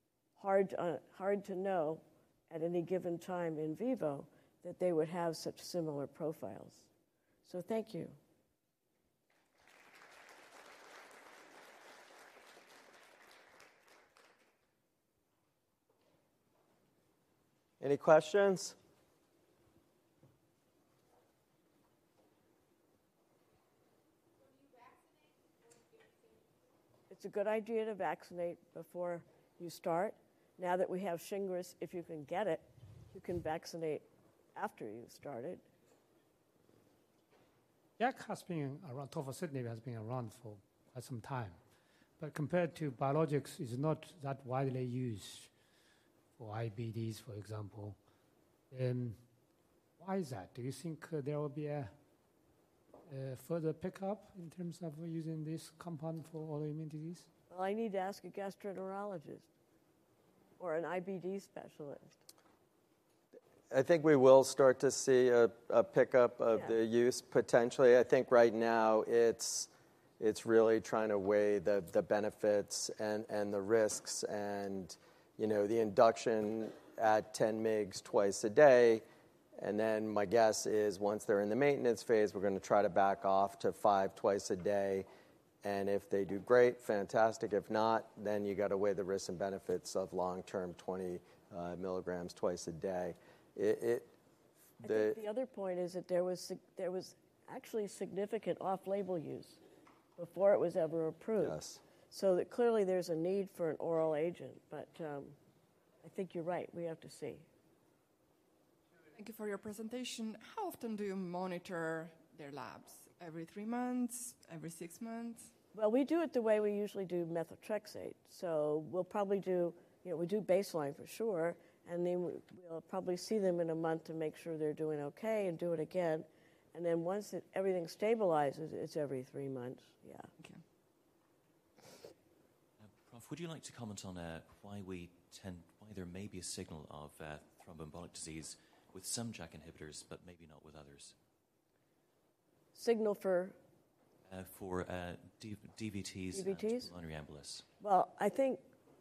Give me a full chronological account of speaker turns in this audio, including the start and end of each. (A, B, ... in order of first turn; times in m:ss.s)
0:00.4-0:06.9 A
0:07.4-0:08.2 A
0:17.8-0:18.8 B
0:27.1-0:34.0 A
0:34.6-0:35.6 A
0:38.0-0:41.6 C
0:42.2-0:45.5 C
0:46.4-0:48.0 C
0:48.7-0:49.2 C
0:50.0-0:51.9 C
0:53.1-0:57.3 C
0:57.5-0:59.5 A
1:00.6-1:02.2 A
1:03.7-1:19.0 B
1:19.6-1:25.1 B
1:25.6-1:34.1 B
1:34.8-1:35.2 B
1:34.8-1:39.6 A
1:40.2-1:41.6 A
1:41.4-1:41.8 B
1:42.1-1:45.4 A
1:46.0-1:47.5 A
1:49.1-1:55.5 D
1:55.7-2:10.3 A
2:12.8-2:21.1 E
2:22.7-2:23.6 A
2:24.3-2:27.6 E
2:26.3-2:26.9 A
2:27.8-2:28.6 A